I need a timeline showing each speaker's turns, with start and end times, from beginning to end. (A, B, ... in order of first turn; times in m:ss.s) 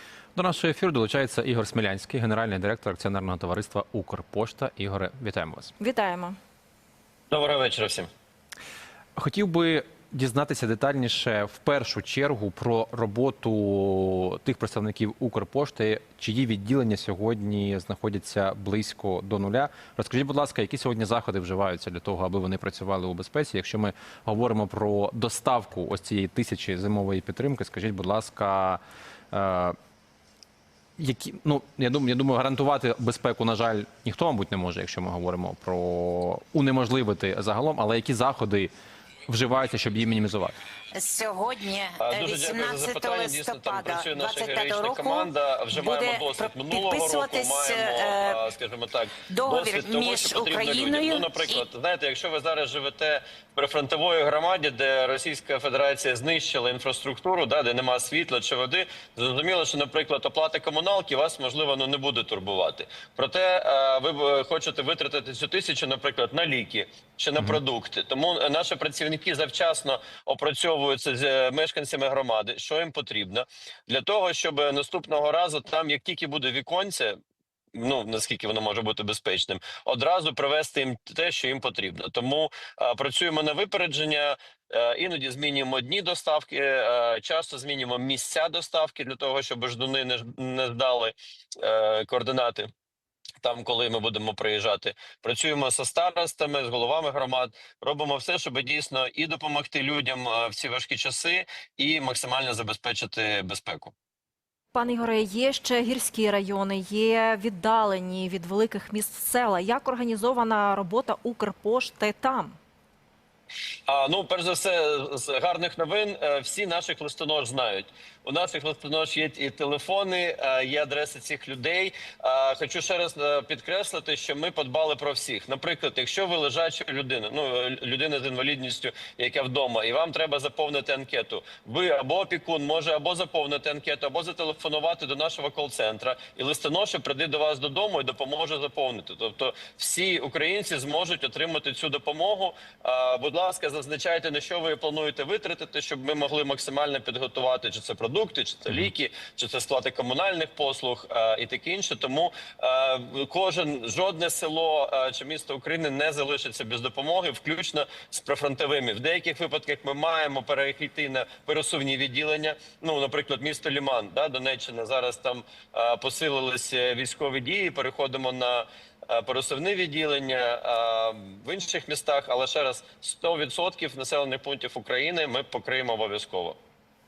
0:00.4-0:05.7 A
0:05.8-0:06.4 B
0:07.3-0:08.1 C
0:09.2-0:28.8 A
0:29.3-0:29.8 A
0:31.0-0:38.7 A
0:39.3-0:40.6 A
0:40.9-0:48.4 D
0:42.0-1:17.2 C
0:49.3-0:51.7 D
1:17.8-1:32.7 C
1:33.4-1:43.9 C
1:44.7-1:52.6 B
1:53.9-2:56.6 C